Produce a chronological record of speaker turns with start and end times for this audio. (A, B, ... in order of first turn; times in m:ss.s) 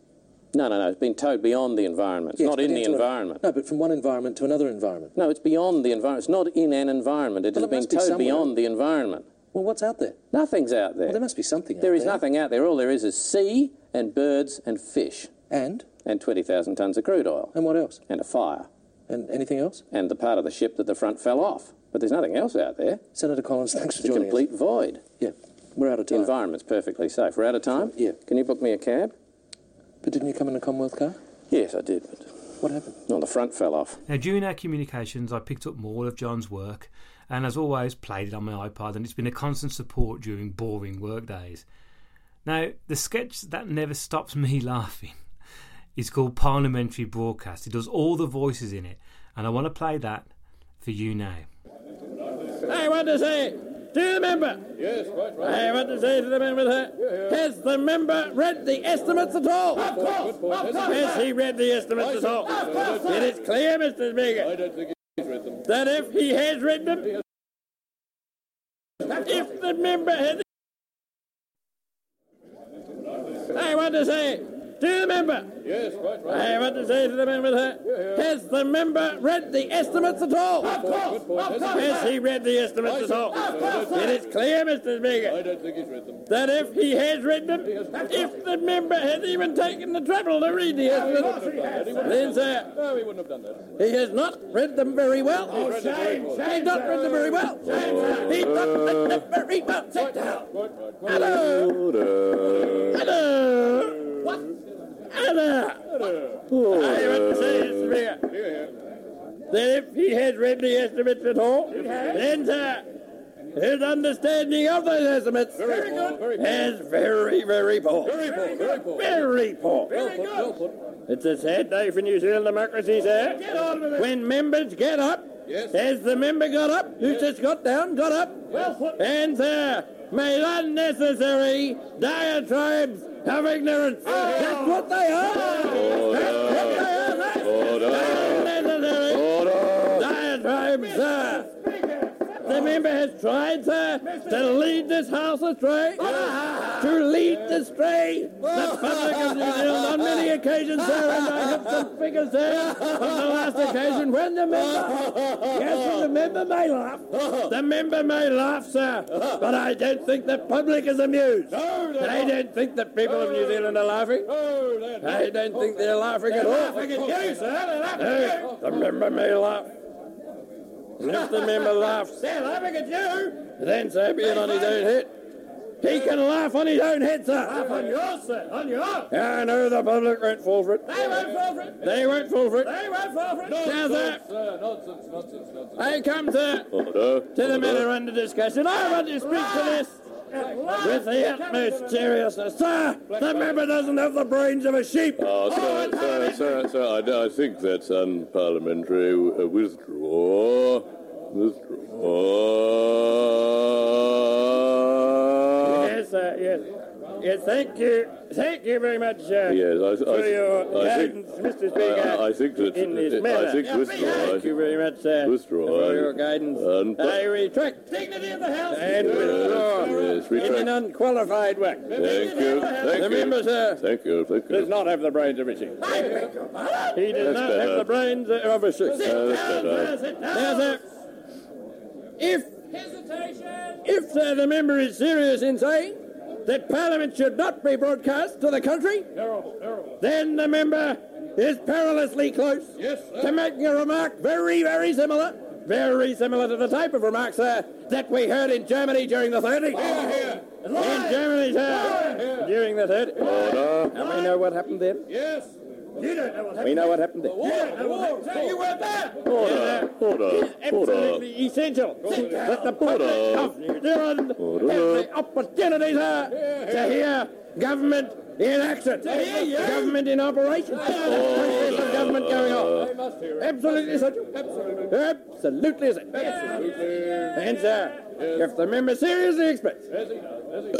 0:00.5-0:03.4 A
0:02.4-0:05.1 B
0:05.1-0:09.3 A
0:07.5-0:08.5 B
0:09.5-0:10.2 B
0:10.3-0:11.2 A
0:11.1-0:12.2 B
0:11.8-0:15.3 A
0:15.5-0:15.8 B
0:16.0-0:17.5 A
0:17.5-0:18.0 B
0:18.1-0:18.7 A
0:19.1-0:19.8 B
0:19.9-0:23.0 A
0:23.1-0:24.4 B
0:24.0-0:25.0 A
0:25.2-0:26.3 B
0:26.1-0:29.1 A
0:30.0-0:31.2 B
0:31.5-0:32.3 A
0:32.6-0:33.0 B
0:33.0-0:34.0 A
0:34.1-0:41.6 C
0:42.4-0:45.2 C
0:46.0-0:50.3 C
0:50.8-0:51.5 C
0:52.6-1:04.6 D
1:05.6-1:07.2 D
1:09.0-1:10.4 D
1:13.5-1:25.5 D
1:26.2-1:32.8 D
1:33.8-1:41.7 D
1:37.6-1:39.3 E
1:41.1-1:43.0 E
1:42.9-1:44.4 D
1:45.1-1:46.1 D
1:46.5-1:48.0 E
1:46.7-1:48.2 D
1:49.5-1:52.9 D
1:53.5-2:19.3 D
2:15.6-2:16.9 E
2:17.4-2:20.1 E
2:19.9-2:21.6 D
2:22.3-2:49.7 D
2:51.0-2:55.1 D
2:55.8-3:04.3 D
3:05.8-3:06.7 D
3:06.7-3:07.9 E
3:07.3-3:10.0 D
3:10.6-3:15.2 D
3:15.2-3:25.9 E
3:25.6-3:43.8 D
3:29.5-3:34.5 E
3:35.2-3:37.2 E
3:38.9-3:40.7 E
3:41.9-3:44.7 E
3:44.5-3:50.8 D
3:47.1-3:47.9 E
3:49.0-3:50.0 E
3:52.2-3:59.2 D
4:00.0-4:13.3 D
4:13.2-4:14.0 E
4:13.9-4:15.1 D
4:16.0-4:40.0 D
4:19.2-4:21.2 E
4:22.7-4:23.5 E
4:24.4-4:25.1 E
4:31.0-4:32.9 E